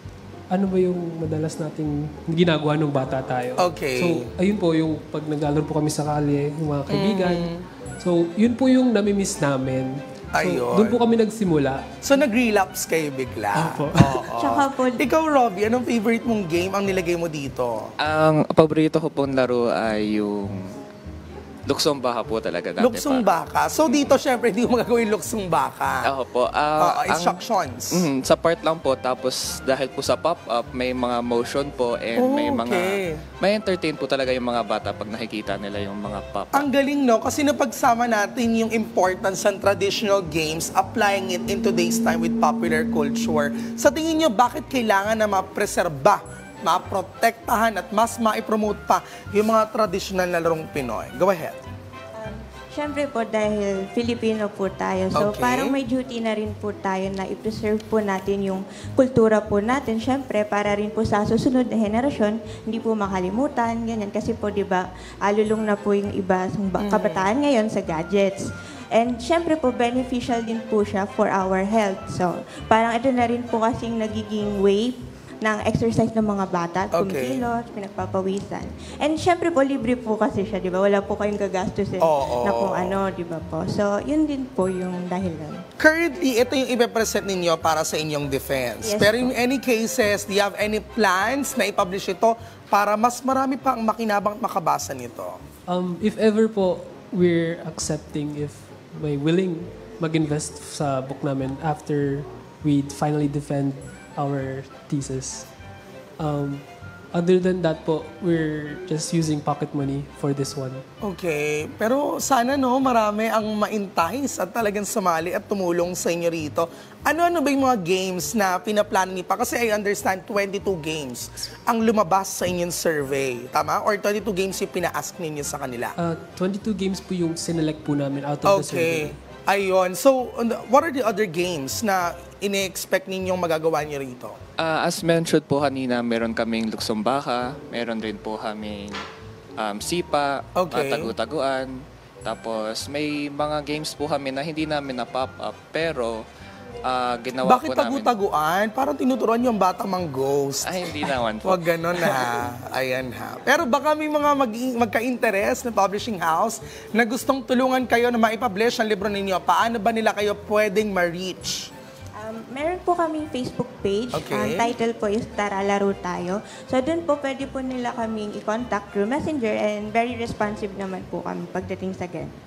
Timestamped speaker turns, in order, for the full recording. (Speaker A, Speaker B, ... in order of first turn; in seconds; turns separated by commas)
Speaker A: 0.5-11.8, Speaker B: 3.6-4.3, Speaker B: 6.9-7.6, Speaker B: 10.3-11.0, Speaker B: 12.0-17.9, Speaker A: 13.5-14.2, Speaker C: 14.3-15.0, Speaker D: 18.0-20.7, Speaker D: 21.7-23.2, Speaker B: 22.8-26.1, Speaker D: 26.0-27.4, Speaker B: 26.8-28.0, Speaker D: 27.9-36.7, Speaker B: 32.2-33.2, Speaker B: 36.5-51.6, Speaker C: 52.1-85.6, Speaker B: 55.1-55.8, Speaker B: 66.8-67.3, Speaker B: 76.9-77.4, Speaker B: 82.0-83.0, Speaker B: 85.8-95.4, Speaker C: 88.8-89.3, Speaker A: 95.7-105.5, Speaker A: 106.2-106.6, Speaker A: 107.1-110.8, Speaker B: 111.0-125.9, Speaker A: 126.0-129.2, Speaker B: 128.4-134.4, Speaker D: 134.6-139.0, Speaker D: 139.6-146.2, Speaker B: 140.6-141.1, Speaker D: 146.8-148.1, Speaker B: 147.4-161.7, Speaker D: 150.6-152.2, Speaker C: 162.2-172.3, Speaker B: 164.1-164.7